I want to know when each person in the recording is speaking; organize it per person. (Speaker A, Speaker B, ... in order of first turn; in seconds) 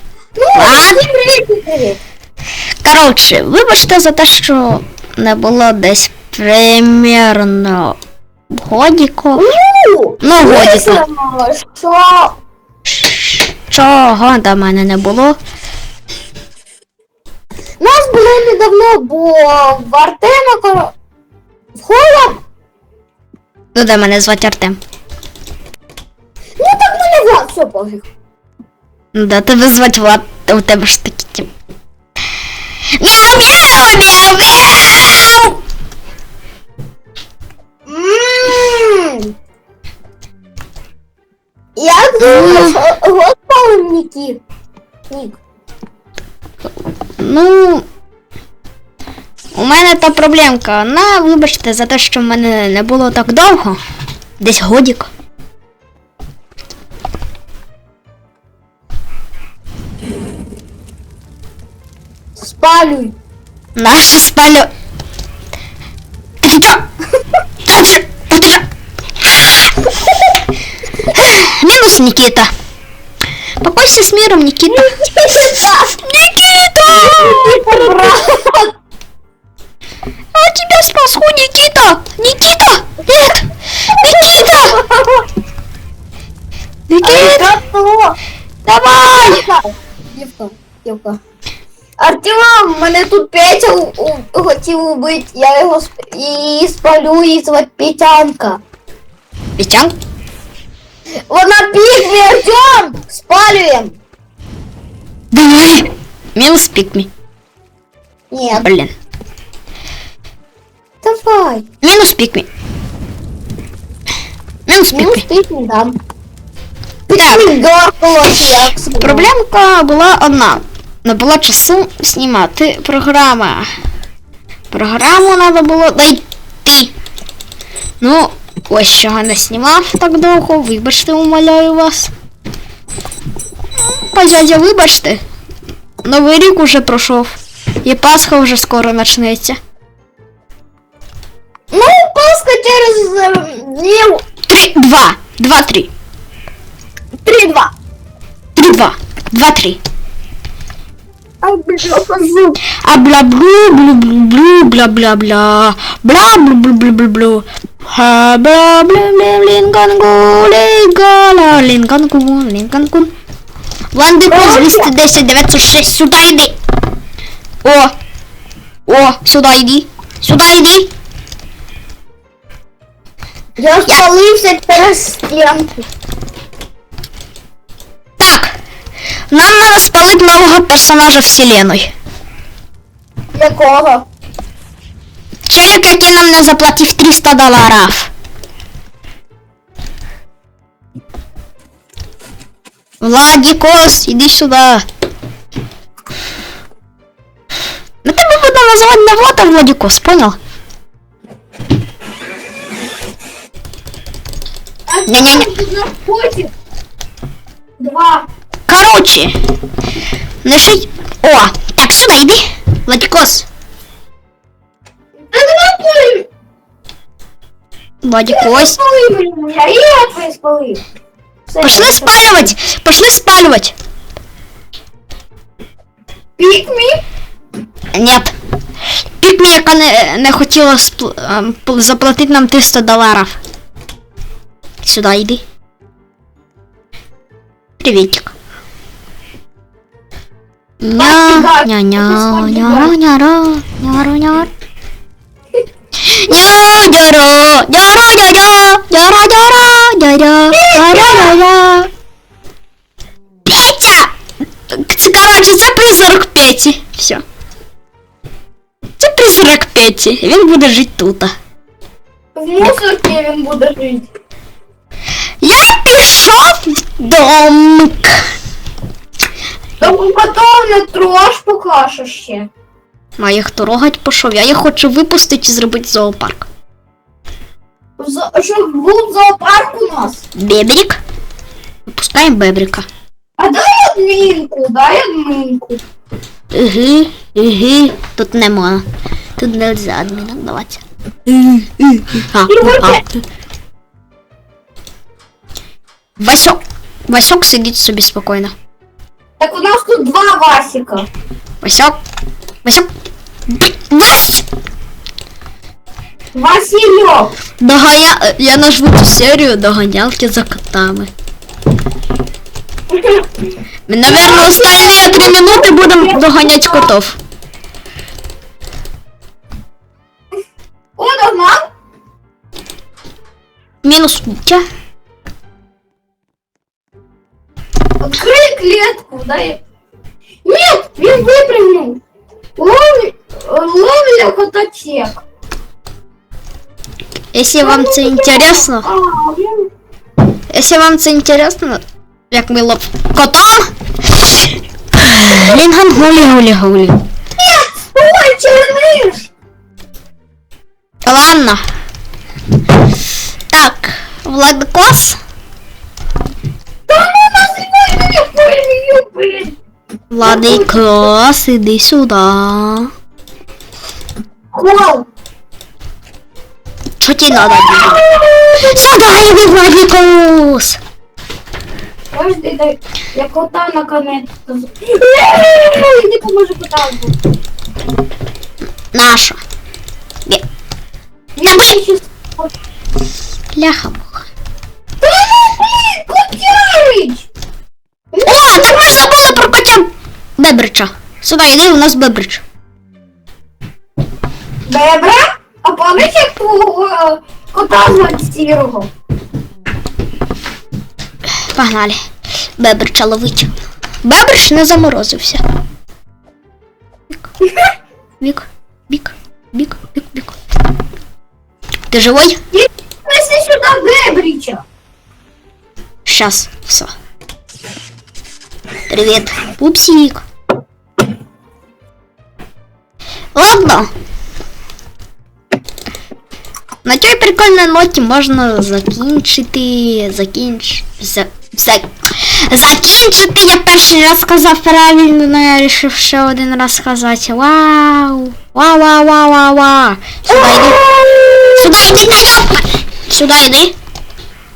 Speaker A: 0.4-2.0, 9.3-12.3, 17.8-20.9, 21.8-22.4, 26.6-28.1, 37.9-39.3, 41.8-44.4, 45.1-45.4, 62.4-63.1, 74.7-75.9, 76.9-78.7, 84.0-85.2, 87.0-88.2, 89.0-91.2, 92.0-98.6, 101.3-104.0, 108.3-108.7, 111.0-111.7, 114.9-116.0, 117.1-119.3, 141.7-144.2, 147.2-147.7, 151.4-152.6, 164.3-164.9, 173.6-175.8, 183.3-184.1, 204.9-206.5, 207.8-208.3, 215.3-216.3, 218.3-220.8, 221.5-222.5, 226.4-227.0, 241.0-242.9, 250.5-251.4, 262.4-264.1, 269.8-272.5, 278.0-280.2, 283.4-285.8, 292.5-293.0, 299.4-301.1, 306.4-307.3, 312.9-313.2, 314.1-316.9, 321.0-321.7, 328.0-329.6, 330.4-332.0, 332.6-335.2, 337.6-339.7, 347.4-349.3, 356.9-359.6, 360.2-360.8, 364.5-365.1, 367.4-368.9, 372.1-377.1, 381.4-382.5, 385.0-387.3, 388.1-388.8, 394.7-398.9, 412.5-414.6, 440.3-441.7
Speaker B: 0.6-1.0, 2.8-8.0, 8.5-9.4, 10.2-11.0, 12.9-15.4, 23.8-24.8, 29.1-31.5, 33.0-35.6, 42.2-42.8, 47.2-47.9, 49.5-53.8, 54.4-55.1, 63.8-64.7, 66.4-66.8, 67.7-68.7, 71.0-72.5, 73.6-77.5, 80.3-84.8, 86.9-87.5, 88.7-89.4, 99.6-100.0, 105.3-107.1, 108.6-108.9, 111.8-112.5, 114.7-115.2, 117.1-117.5, 119.0-123.7, 124.7-126.9, 128.0-132.1, 133.8-135.2, 136.0-139.6, 144.5-145.9, 148.6-149.8, 152.8-163.1, 163.9-166.5, 167.6-167.9, 168.9-170.9, 178.2-178.5, 179.3-181.9, 185.5-188.1, 193.0-194.8, 198.0-200.4, 205.1-205.5, 208.7-209.3, 210.4-213.5, 218.0-218.8, 221.6-223.7, 227.9-228.3, 229.2-233.4, 234.8-235.4, 237.8-238.3, 240.8-244.5, 246.1-251.9, 253.5-254.1, 254.7-257.2, 259.0-261.3, 265.4-268.2, 273.2-276.5, 280.4-281.0, 281.9-282.9, 286.5-288.8, 289.4-293.0, 296.2-298.5, 301.6-302.0, 303.5-304.4, 307.6-311.1, 313.9-317.2, 323.8-324.6, 337.3-338.9, 340.5-343.7, 344.9-347.0, 351.1-351.6, 353.5-355.2, 360.1-362.9, 367.0-368.0, 368.7-370.8, 378.9-379.4, 383.5-384.2, 388.2-389.9, 390.4-392.4, 401.5-402.0, 402.6-403.5, 404.0-405.4, 408.2-410.4, 411.9-412.4, 416.1-416.9, 418.9-420.2, 423.4-423.9, 426.9-440.8, 441.6-443.7